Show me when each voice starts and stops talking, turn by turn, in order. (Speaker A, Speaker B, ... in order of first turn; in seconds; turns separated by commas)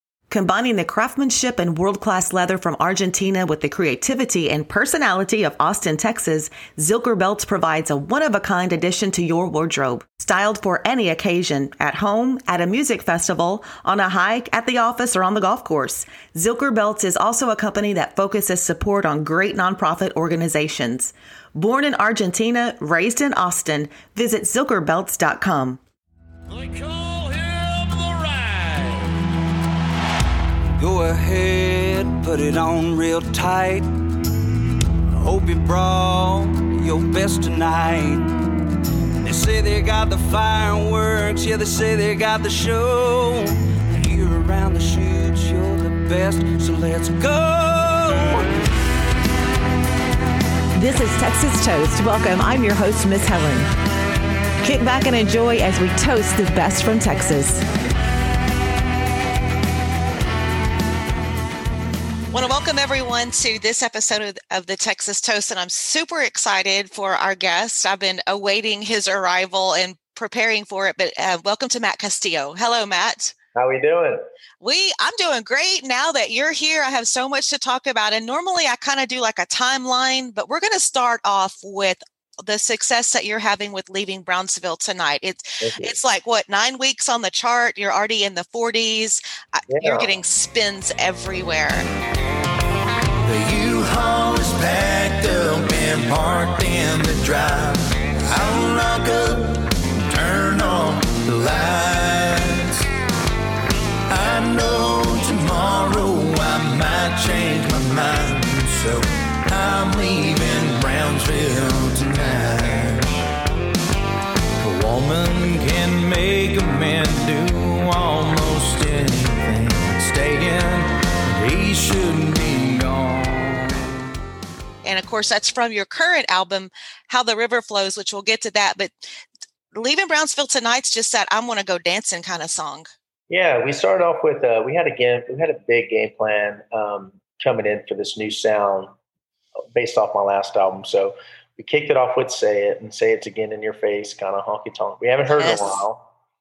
Speaker A: 0.3-25.8, Speaker B: 30.8-33.9, Speaker B: 35.2-38.3, Speaker B: 39.2-48.4, Speaker C: 47.5-48.3, Speaker A: 50.7-53.7, Speaker A: 54.6-57.6, Speaker D: 62.3-73.3, Speaker E: 73.5-74.2, Speaker D: 74.6-91.9, Speaker E: 85.6-86.0, Speaker E: 89.7-90.1, Speaker C: 93.2-102.8, Speaker C: 104.1-113.2, Speaker C: 114.6-123.9, Speaker D: 124.8-129.0, Speaker D: 129.7-132.9, Speaker E: 133.3-139.0, Speaker E: 139.8-146.1, Speaker D: 145.3-145.8